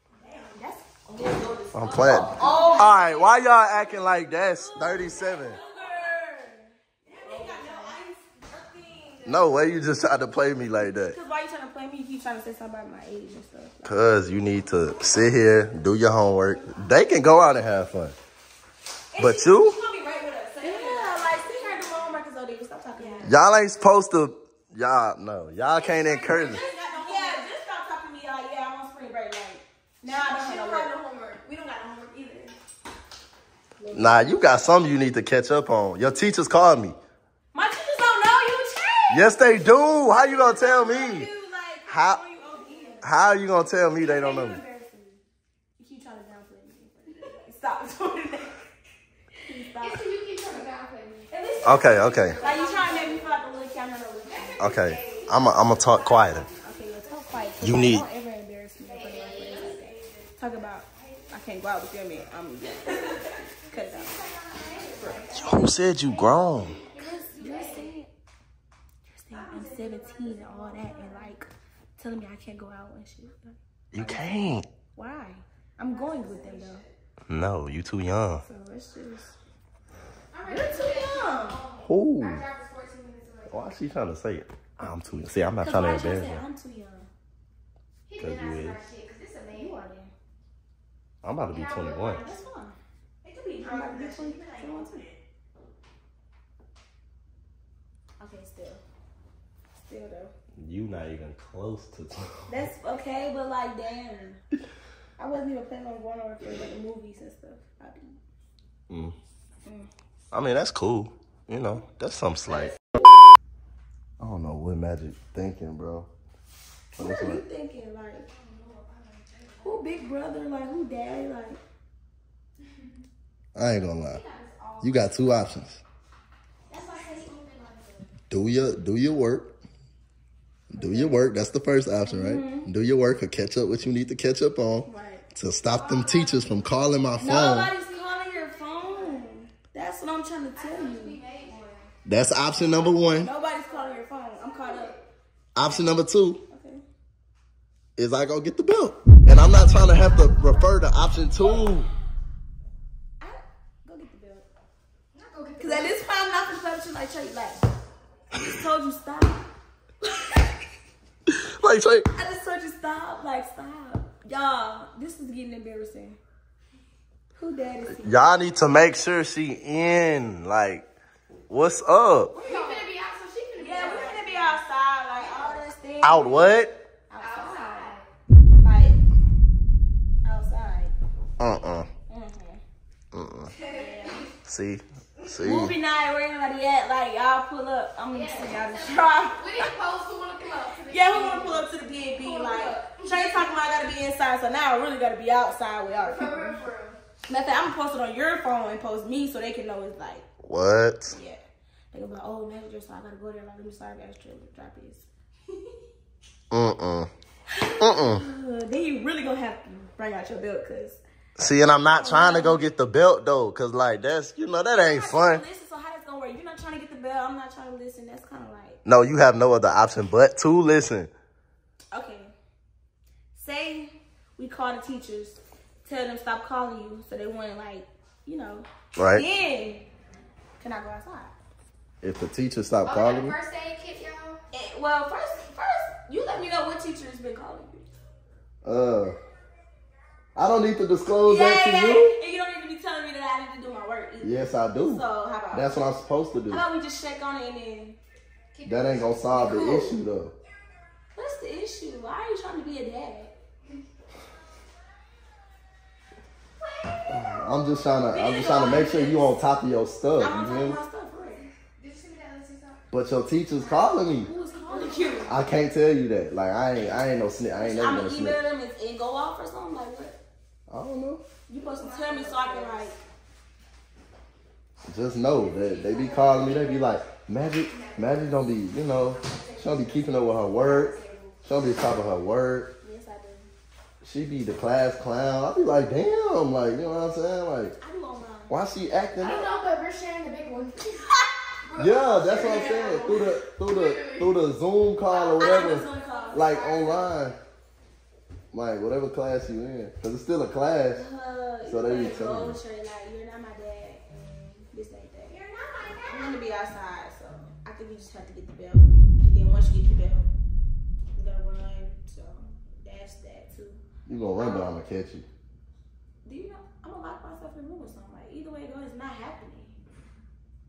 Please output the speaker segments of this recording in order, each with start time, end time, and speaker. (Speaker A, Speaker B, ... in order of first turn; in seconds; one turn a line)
Speaker A: 0.3-9.4
Speaker B: 1.7-5.6
Speaker C: 1.9-3.0
Speaker C: 7.1-8.0
Speaker C: 8.5-9.0
Speaker B: 9.2-11.2
Speaker A: 10.8-14.0
Speaker B: 13.8-18.1
Speaker B: 19.1-19.8
Speaker C: 19.2-22.1
Speaker A: 19.2-19.6
Speaker A: 20.6-23.3
Speaker C: 22.9-23.3
Speaker B: 23.2-26.6
Speaker C: 25.8-27.5
Speaker A: 26.0-30.9
Speaker C: 30.0-32.5
Speaker A: 33.8-34.2
Speaker B: 33.9-37.0
Speaker A: 37.5-39.4
Speaker B: 39.1-41.3
Speaker A: 40.1-45.2
Speaker B: 41.9-42.2
Speaker B: 43.0-44.6
Speaker A: 45.8-48.6
Speaker A: 49.5-50.1
Speaker C: 49.8-53.4
Speaker B: 51.6-52.4
Speaker A: 51.6-54.7
Speaker C: 54.3-57.7
Speaker B: 54.6-56.5
Speaker A: 56.6-64.2
Speaker B: 57.6-58.0
Speaker C: 58.8-60.4
Speaker C: 61.0-61.2
Speaker C: 62.9-67.9
Speaker A: 65.0-65.3
Speaker B: 65.3-66.8
Speaker A: 67.0-68.1
Speaker A: 69.1-76.8
Speaker C: 69.3-71.3
Speaker B: 73.9-74.7
Speaker C: 75.8-76.9
Speaker B: 77.3-78.4
Speaker A: 78.4-79.3
Speaker C: 80.3-83.7
Speaker A: 80.5-81.6
Speaker B: 81.8-82.4
Speaker B: 83.5-86.4
Speaker A: 85.6-87.1
Speaker C: 88.1-89.8
Speaker B: 88.2-88.8
Speaker A: 89.5-90.1
Speaker B: 91.2-92.2
Speaker C: 91.5-92.5
Speaker A: 92.2-92.8
Speaker C: 93.2-95.2
Speaker A: 93.6-95.0
Speaker A: 98.2-98.8
Speaker A: 99.7-100.3
Speaker B: 100.6-102.5
Speaker A: 102.5-104.4
Speaker A: 105.2-108.2
Speaker B: 108.9-109.2
Speaker B: 110.3-112.7
Speaker B: 114.2-116.1
Speaker A: 116.9-118.3
Speaker B: 117.0-117.4
Speaker C: 118.3-119.9
Speaker A: 119.6-121.6
Speaker B: 123.5-124.2
Speaker C: 124.0-125.4
Speaker B: 124.8-125.8
Speaker C: 126.7-128.1
Speaker B: 128.3-129.5
Speaker B: 130.7-137.7
Speaker A: 132.1-132.7
Speaker A: 134.8-135.2
Speaker C: 135.6-136.6
Speaker A: 137.2-141.2
Speaker C: 137.3-139.3
Speaker C: 140.6-141.9
Speaker B: 142.0-143.3
Speaker C: 142.5-145.1
Speaker A: 143.1-144.9
Speaker B: 145.5-146.4
Speaker A: 146.5-146.8
Speaker B: 148.0-151.9
Speaker A: 153.2-154.4
Speaker C: 155.1-156.0
Speaker A: 155.6-157.6
Speaker A: 158.3-159.4
Speaker A: 160.0-160.6
Speaker B: 161.3-162.1
Speaker A: 162.1-166.2
Speaker A: 167.4-168.2
Speaker B: 167.9-170.8
Speaker B: 171.5-172.3
Speaker A: 172.3-172.8
Speaker C: 172.4-174.6
Speaker A: 173.6-177.9
Speaker C: 175.2-175.7
Speaker B: 176.0-176.8
Speaker C: 177.2-178.1
Speaker A: 178.6-179.0
Speaker A: 180.2-180.9
Speaker B: 181.4-181.9
Speaker A: 182.1-182.6
Speaker B: 183.1-183.5
Speaker C: 183.5-184.3
Speaker A: 183.6-184.3
Speaker B: 184.4-185.7
Speaker A: 185.4-189.7
Speaker C: 188.1-193.6
Speaker A: 190.9-196.6
Speaker C: 195.9-197.0
Speaker A: 197.3-200.2
Speaker B: 200.4-201.2
Speaker A: 201.1-201.4
Speaker A: 201.9-205.1
Speaker B: 206.5-207.1
Speaker A: 207.5-211.0
Speaker B: 207.8-208.2
Speaker B: 211.4-215.4
Speaker A: 211.9-212.6
Speaker A: 214.7-218.8
Speaker B: 218.8-221.1
Speaker A: 221.9-222.3
Speaker A: 223.3-229.8
Speaker B: 228.9-229.2
Speaker A: 230.6-231.3
Speaker B: 232.0-233.4
Speaker C: 232.8-234.4
Speaker A: 234.5-237.8
Speaker B: 238.6-239.2
Speaker B: 240.3-242.1
Speaker A: 241.2-245.8
Speaker B: 244.2-246.6
Speaker A: 246.5-248.0
Speaker C: 248.5-249.9
Speaker B: 248.6-250.3
Speaker A: 251.1-253.3
Speaker B: 257.1-260.8
Speaker A: 258.1-259.4
Speaker A: 260.2-261.5
Speaker C: 261.8-262.8
Speaker B: 262.9-264.3
Speaker C: 263.6-265.3
Speaker A: 264.2-265.3
Speaker B: 265.3-268.4
Speaker A: 267.6-270.2
Speaker B: 270.7-271.2
Speaker A: 271.5-273.0
Speaker C: 271.6-272.9
Speaker B: 274.9-282.7
Speaker C: 275.1-281.4
Speaker A: 282.8-283.5
Speaker B: 284.0-287.7
Speaker A: 287.8-288.6
Speaker B: 288.5-289.5
Speaker C: 289.2-291.1
Speaker C: 291.6-294.4
Speaker B: 291.8-297.4
Speaker C: 295.1-297.3
Speaker A: 295.4-296.8
Speaker B: 298.5-301.0
Speaker A: 300.9-305.3
Speaker B: 301.6-302.6
Speaker C: 305.3-306.4
Speaker A: 306.0-310.3
Speaker A: 311.1-313.8
Speaker B: 314.1-315.2
Speaker A: 314.4-314.7
Speaker A: 316.2-319.8